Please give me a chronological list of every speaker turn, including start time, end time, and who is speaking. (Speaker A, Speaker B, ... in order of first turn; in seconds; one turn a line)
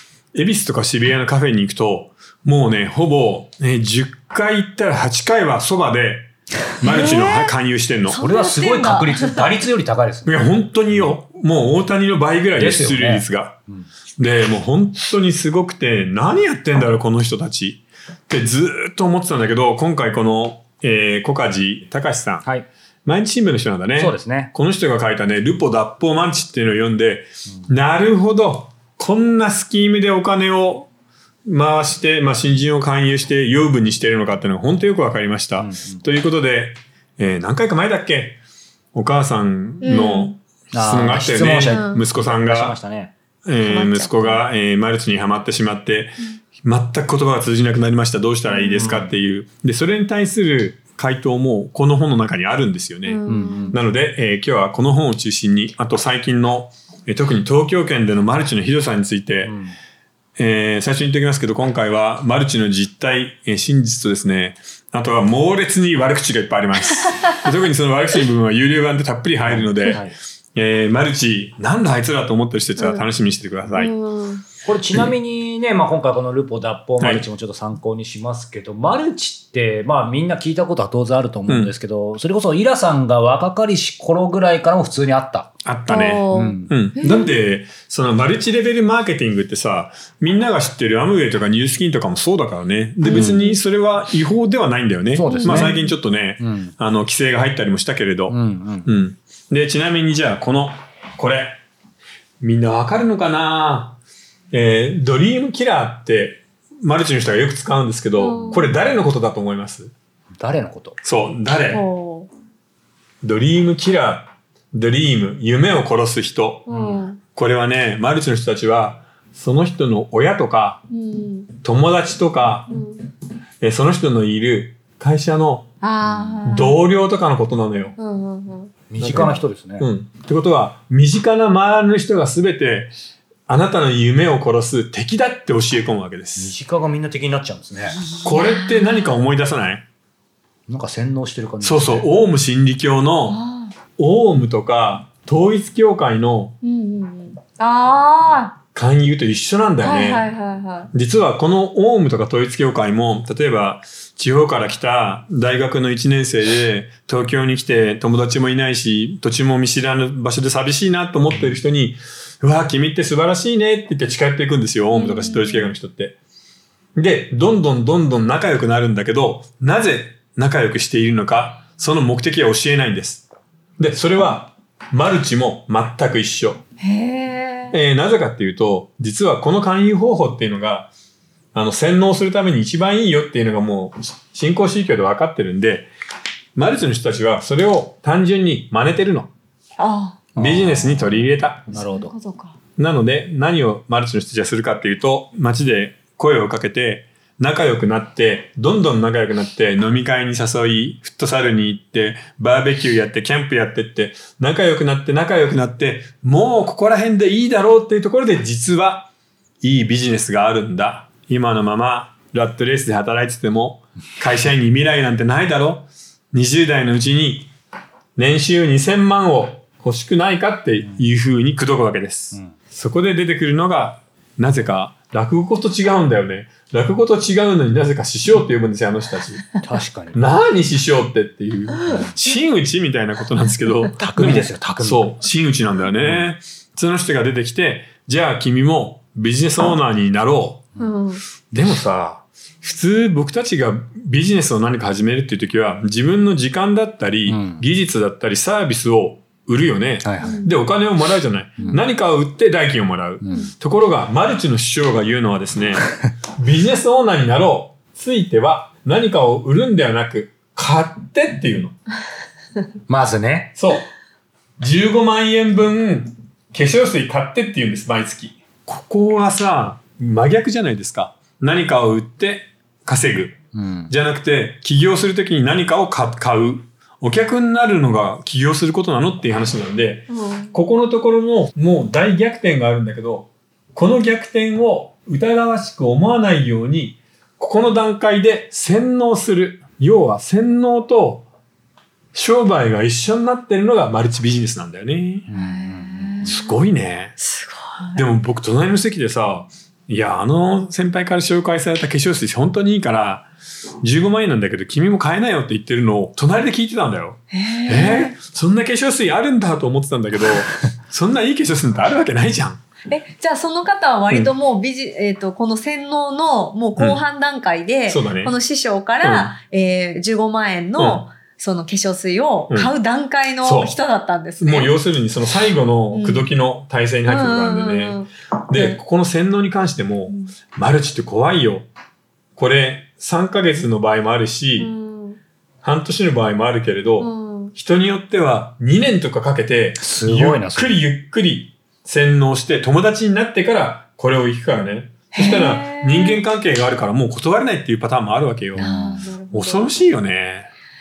Speaker A: 0.3-8.2
Speaker B: 6.8-9.6
Speaker C: 8.2-11.1
Speaker A: 10.2-13.6
Speaker C: 12.6-13.9
Speaker A: 14.2-22.4
Speaker A: 23.1-30.9
Speaker C: 23.9-24.5
Speaker A: 31.5-38.4
Speaker C: 35.6-36.0
Speaker A: 38.9-42.8
Speaker B: 39.8-40.3
Speaker C: 40.7-43.1
Speaker B: 41.7-42.0
Speaker A: 43.5-59.5
Speaker B: 43.6-44.5
Speaker B: 48.5-49.0
Speaker C: 48.8-49.1
Speaker B: 53.0-53.8
Speaker C: 53.3-53.8
Speaker C: 59.4-59.8
Speaker A: 60.4-73.9
Speaker B: 67.0-67.3
Speaker C: 69.4-70.1
Speaker B: 72.8-73.0
Speaker B: 73.7-74.4
Speaker C: 74.6-85.5
Speaker A: 77.0-77.3
Speaker A: 81.5-81.7
Speaker A: 85.6-101.6
Speaker B: 85.9-87.4
Speaker C: 86.3-86.7
Speaker B: 93.0-93.6
Speaker C: 93.0-93.5
Speaker C: 95.1-95.8
Speaker B: 95.2-95.9
Speaker C: 96.4-96.7
Speaker C: 98.3-98.9
Speaker A: 102.4-104.0
Speaker A: 104.5-109.9
Speaker B: 108.1-108.8
Speaker C: 108.3-108.6
Speaker C: 110.4-111.0
Speaker A: 111.0-111.8
Speaker B: 111.7-112.3
Speaker A: 113.2-116.7
Speaker B: 116.7-117.2
Speaker C: 116.7-117.0
Speaker A: 117.3-120.8
Speaker B: 120.9-121.5
Speaker A: 121.6-122.7
Speaker B: 122.7-123.0
Speaker A: 123.6-125.7
Speaker B: 125.8-126.8
Speaker C: 126.0-126.4
Speaker A: 126.5-127.9
Speaker B: 128.0-128.7
Speaker C: 128.9-129.9
Speaker A: 129.0-132.9
Speaker A: 133.5-136.5
Speaker C: 136.4-138.0
Speaker B: 137.9-139.2
Speaker A: 138.2-139.8
Speaker C: 140.7-142.1
Speaker A: 141.6-143.4
Speaker B: 143.3-143.7
Speaker A: 144.0-146.5
Speaker B: 146.6-148.6
Speaker A: 148.7-150.2
Speaker B: 149.8-150.9
Speaker A: 150.9-166.2
Speaker B: 164.9-165.8
Speaker A: 166.9-173.2
Speaker A: 173.8-176.6
Speaker B: 176.8-177.8
Speaker A: 177.7-180.9
Speaker A: 181.5-185.9
Speaker A: 186.6-189.3
Speaker B: 189.8-190.2
Speaker A: 190.3-191.8
Speaker C: 190.3-192.1
Speaker B: 191.7-192.6
Speaker A: 192.8-209.1
Speaker A: 209.6-217.5
Speaker A: 218.2-229.6
Speaker C: 229.6-230.2
Speaker A: 230.1-240.7
Speaker C: 231.9-232.1
Speaker C: 234.0-235.2
Speaker C: 236.0-236.3
Speaker B: 240.8-241.2
Speaker A: 241.5-255.9
Speaker C: 247.3-247.6
Speaker C: 250.0-250.4
Speaker B: 250.2-250.5
Speaker C: 253.2-253.5
Speaker A: 256.4-261.7
Speaker C: 262.9-263.5
Speaker A: 263.6-263.9
Speaker A: 264.6-273.4
Speaker C: 273.5-273.9
Speaker A: 273.9-291.2
Speaker B: 280.1-280.5
Speaker A: 292.1-295.3
Speaker C: 295.3-296.4
Speaker B: 295.3-296.5
Speaker A: 296.2-297.2
Speaker B: 297.2-298.0
Speaker A: 297.9-303.3
Speaker A: 303.8-312.6
Speaker B: 307.3-308.1
Speaker B: 312.9-324.7
Speaker A: 317.9-318.3
Speaker A: 319.0-319.3
Speaker A: 320.8-321.0
Speaker A: 323.4-323.7
Speaker A: 324.4-331.7
Speaker B: 325.9-326.3
Speaker B: 327.1-328.8
Speaker A: 332.4-334.7
Speaker B: 334.6-335.2
Speaker A: 335.6-348.7
Speaker B: 337.0-337.5
Speaker C: 339.8-340.8
Speaker B: 345.1-346.2
Speaker C: 348.6-349.1
Speaker B: 348.6-349.7
Speaker A: 349.3-350.5